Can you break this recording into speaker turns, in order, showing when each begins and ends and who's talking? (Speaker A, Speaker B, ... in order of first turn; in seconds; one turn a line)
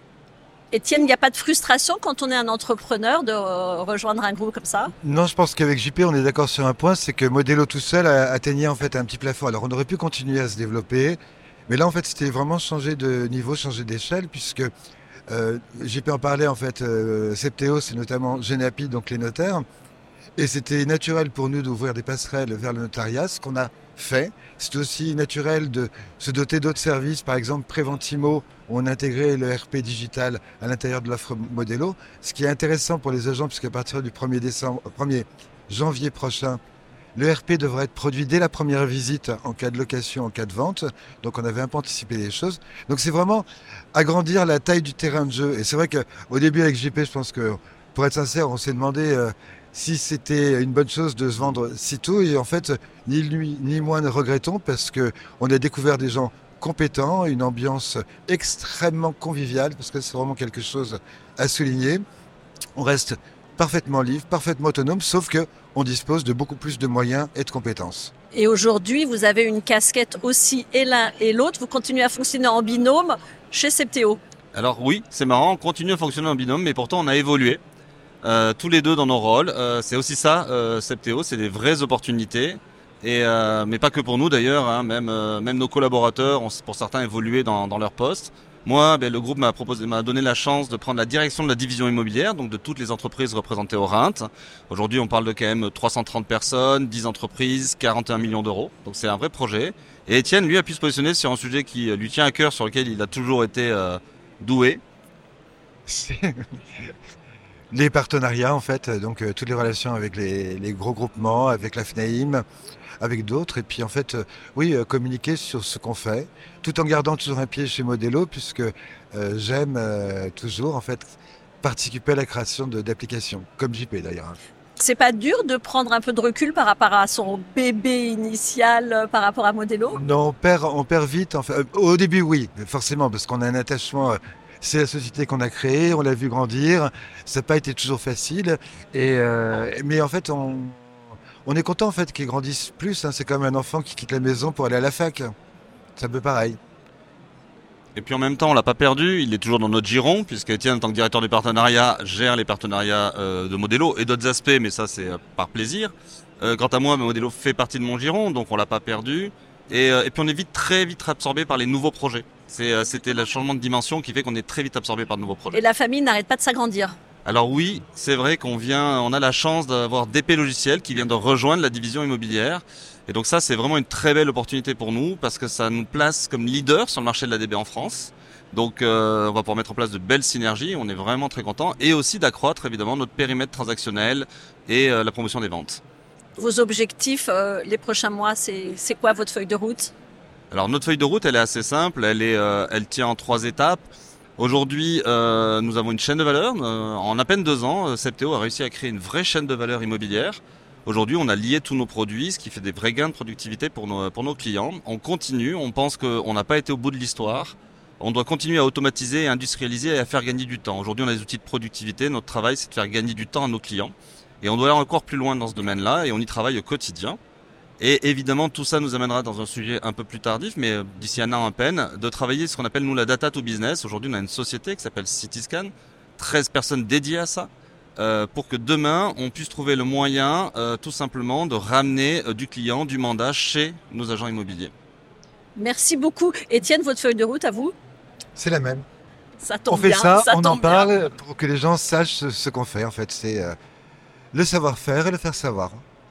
Speaker A: 0.7-4.9
Speaker B: 5.0-14.7
Speaker B: 15.3-19.6
Speaker B: 20.4-36.6
Speaker B: 37.2-62.0
Speaker B: 62.8-68.1
Speaker A: 68.3-74.2
Speaker C: 74.5-77.6
Speaker C: 78.2-104.8
Speaker B: 105.9-106.5
Speaker B: 107.7-112.4
Speaker B: 113.0-124.4
Speaker A: 124.8-130.0
Speaker B: 129.9-140.9
Speaker B: 141.4-145.3
Speaker B: 146.0-146.6
Speaker C: 147.9-165.6
Speaker A: 165.5-166.9
Speaker C: 167.2-185.8
Speaker A: 186.4-189.9
Speaker C: 190.5-193.9
Speaker C: 194.4-217.2
Speaker C: 217.8-234.7
Speaker A: 235.6-237.7
Speaker B: 238.4-238.8
Speaker A: 239.4-240.9
Speaker B: 239.7-243.6
Speaker B: 244.3-245.8